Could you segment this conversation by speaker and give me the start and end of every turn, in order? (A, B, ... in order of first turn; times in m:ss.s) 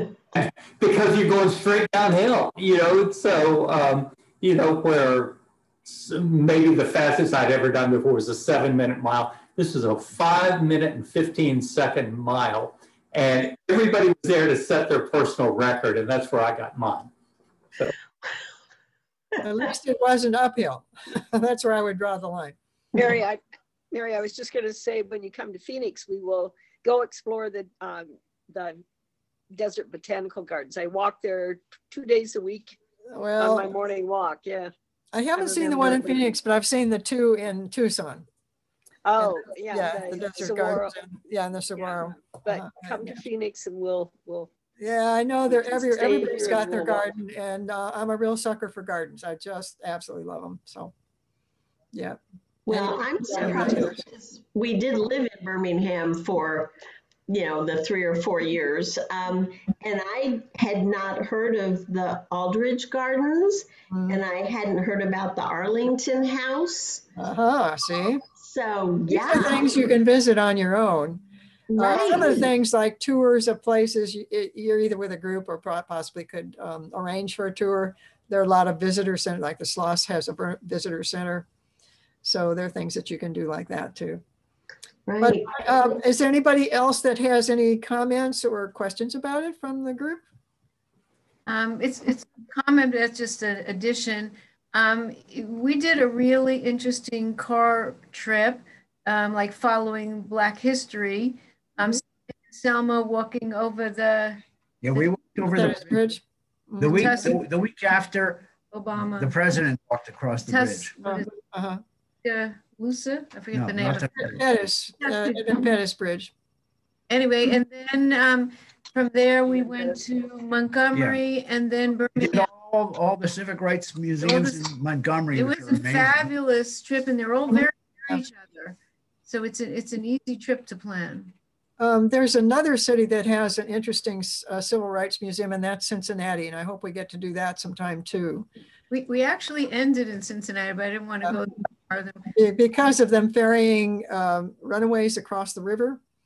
0:00.3-0:17.1 A
0:19.4-0:22.6 B
0:23.0-0:23.4 C
0:23.9-0:28.8 C
0:29.5-0:32.8 C
0:33.1-0:33.7 B
0:33.4-0:34.7 C
0:35.1-0:38.2 B
0:35.4-0:36.2 C
0:39.0-0:40.9 C
0:39.2-0:43.2 B
0:41.8-0:44.5 C
0:44.8-0:50.9 B
0:45.5-0:47.1 C
0:51.9-0:54.0 B
0:52.7-0:56.7 D
0:57.3-1:07.0 D
1:03.9-1:04.2 B
1:07.2-1:08.2 B
1:08.4-1:09.8 D
1:09.1-1:11.2 B
1:11.7-1:12.5 D
1:11.8-1:21.4 B
1:22.2-1:24.2 B
1:25.0-1:25.6 D
1:25.2-1:30.2 B
1:31.5-1:44.4 E
1:44.8-1:46.0 F
1:45.5-1:47.3 B
1:46.8-1:48.5 F
1:46.9-1:47.4 E
1:48.7-1:49.6 E
1:49.2-1:50.9 F
1:50.4-1:51.3 E
1:51.0-1:51.8 B
1:52.2-1:54.4 E
1:53.5-1:54.4 F
1:54.2-1:56.3 B
1:55.0-1:55.7 E
1:57.1-2:02.5 E
2:00.9-2:01.2 F
2:02.2-2:06.3 F
2:04.2-2:04.8 E
2:05.3-2:11.3 E
2:11.8-2:18.5 B
2:18.9-2:22.3 E
2:22.3-2:26.0 B